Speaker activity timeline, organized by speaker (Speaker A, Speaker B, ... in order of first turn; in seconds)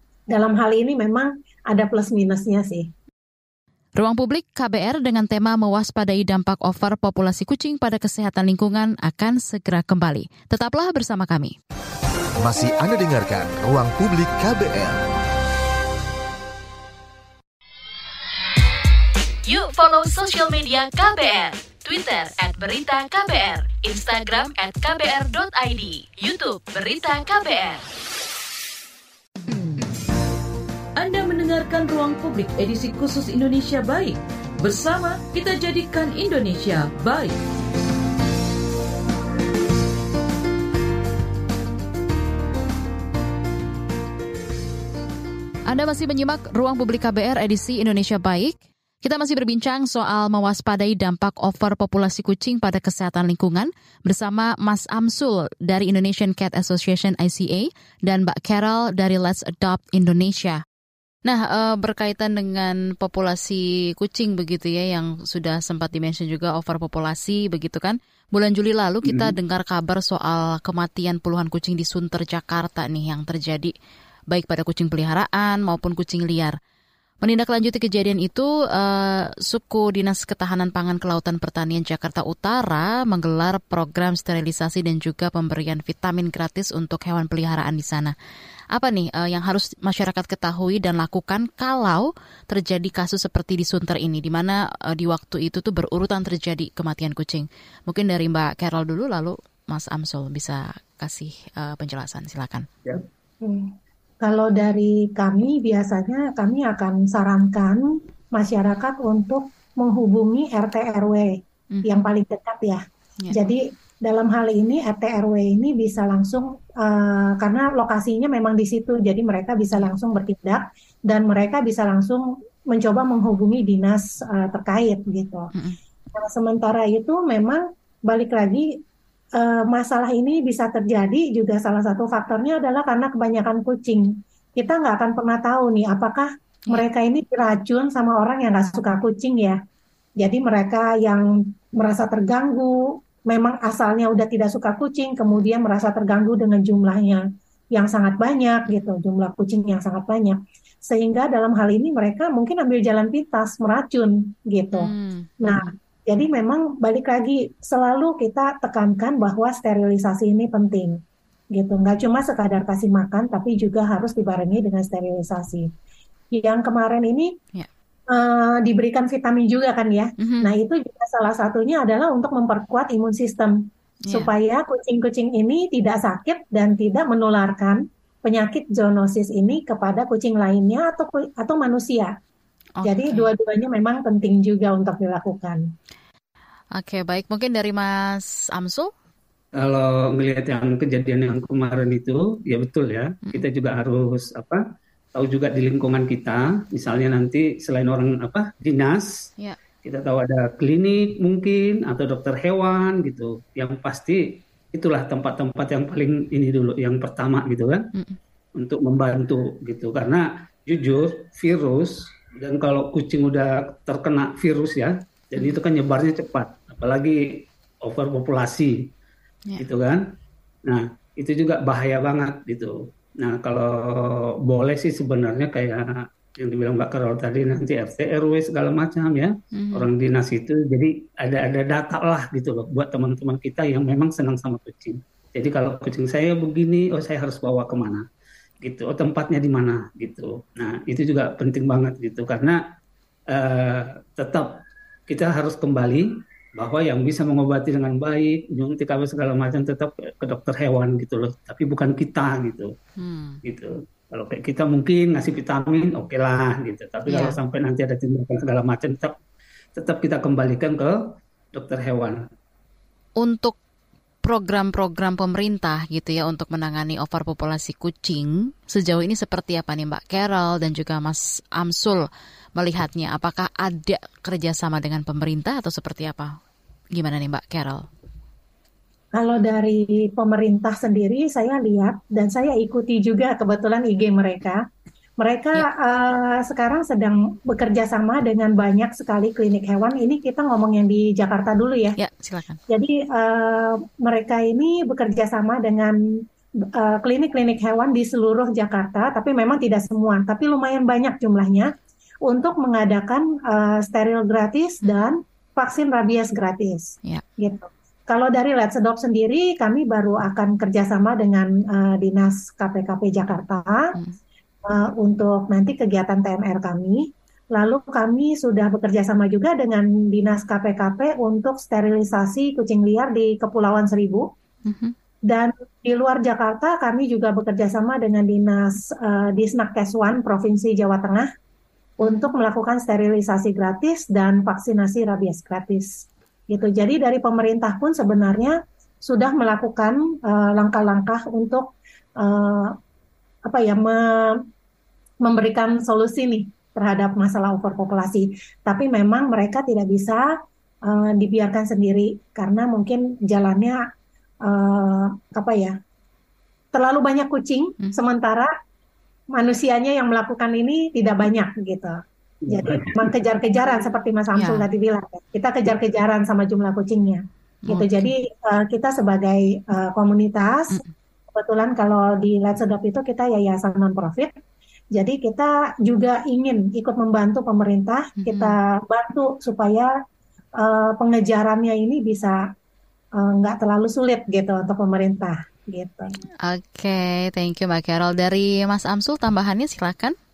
Speaker A: 0.3-2.9, 103.4-107.8, 108.3-111.3, 111.8-125.5, 126.2-128.7, 129.4-139.6, 140.2-147.2, 147.7-154.9, 155.4-161.0, 161.6-165.7, 166.3-167.3, 168.1-173.6, 174.1-182.1, 182.8-185.6, 279.2-284.6, 285.2-292.0, 292.7-295.9, 296.8-301.7, 302.3-313.9, 314.7-324.3, 325.3-331.3, 332.0-341.7, 342.2-342.8, 343.5-344.4, 345.2-350.2, 350.9-353.8, 354.4-355.8, 356.7-358.5, 359.4-370.8, 371.3-374.3, 374.9-379.9, 380.6-382.4, 383.2-386.1
Speaker B: 4.0-11.6, 45.7-60.6, 61.2-73.7, 74.3-76.5, 77.2-88.2, 88.7-102.7, 111.7-112.0, 154.7-155.7, 170.2-170.5, 174.1-174.3, 182.8-183.3, 186.8-188.9, 229.6-229.9, 253.0-253.4, 257.1-257.4, 263.2-263.6, 264.2-276.4, 276.9-277.9, 292.0-292.6, 324.7-324.9, 332.0-332.3, 364.4-364.7, 367.7-368.1, 378.2-378.6, 386.4-390.1
Speaker C: 12.4-15.0
Speaker D: 19.5-27.8, 31.0-37.4
Speaker E: 69.0-69.3, 189.6-194.6, 195.2-199.1, 199.8-204.2, 204.7-207.9, 208.6-218.9, 219.6-220.0, 220.7-238.1, 238.6-242.6, 243.3-244.5, 245.1-252.7, 253.4-259.1, 259.8-261.0, 261.5-262.2, 362.5-363.1